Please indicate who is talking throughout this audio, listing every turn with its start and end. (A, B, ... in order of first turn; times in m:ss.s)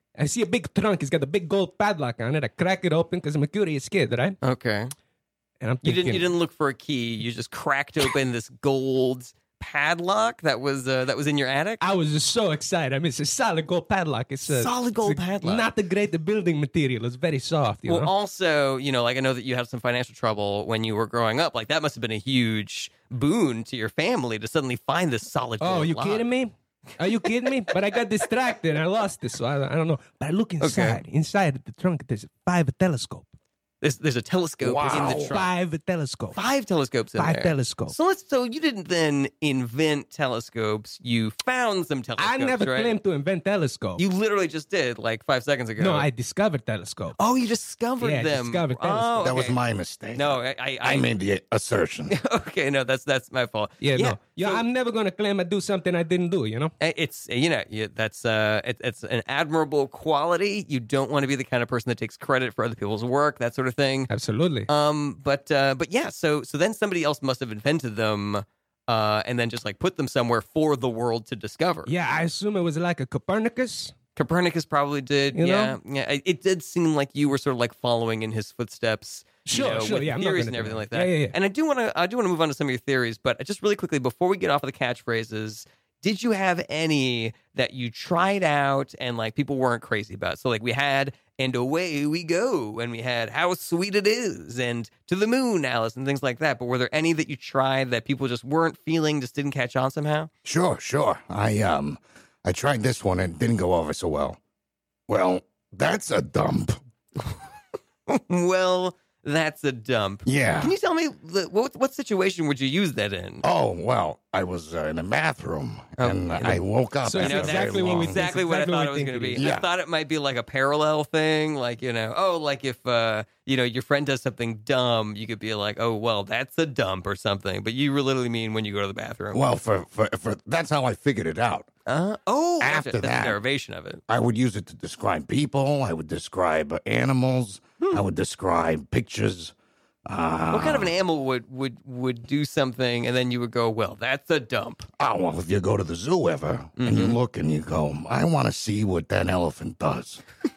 0:00.2-0:04.4 A
0:04.4-0:04.9 B
0:05.6-0:06.3 A
0:05.8-0:11.8 B
0:11.8-0:18.1 A
0:14.4-0:15.7 B
0:17.9-0:26.3 B
0:25.6-0:33.3 A
0:30.6-0:31.0 B
0:33.8-0:35.5 B
0:34.6-0:35.4 C
0:34.9-0:36.4 A
0:36.3-0:43.0 B
0:37.2-0:38.0 A
0:42.2-0:44.0 A
0:44.0-0:46.1 B
0:45.8-0:47.2 A
0:47.2-0:49.6 B
0:48.0-0:49.4 A
0:49.2-0:52.2 C
0:50.1-0:51.1 B
0:52.1-0:54.6 B
0:53.8-0:56.7 A
0:56.8-1:04.1 B
1:04.1-1:04.7 A
1:04.7-1:11.9 B
1:11.9-1:13.9 A
1:14.2-1:40.3 B
1:15.4-1:15.8 A
1:19.5-1:21.3 A
1:40.4-1:44.4 C
1:45.1-1:46.8 C
1:48.1-1:53.5 B
1:50.3-1:50.7 C
1:53.4-1:58.3 C
1:56.0-2:09.4 B
1:57.0-1:59.4 A
1:59.4-1:59.7 C
2:09.3-2:11.7 C
2:11.9-2:14.0 B
2:12.6-2:13.4 C
2:14.1-2:19.5 C
2:20.1-2:21.0 C
2:20.5-2:24.9 B
2:25.0-2:30.2 C
2:26.8-2:27.2 B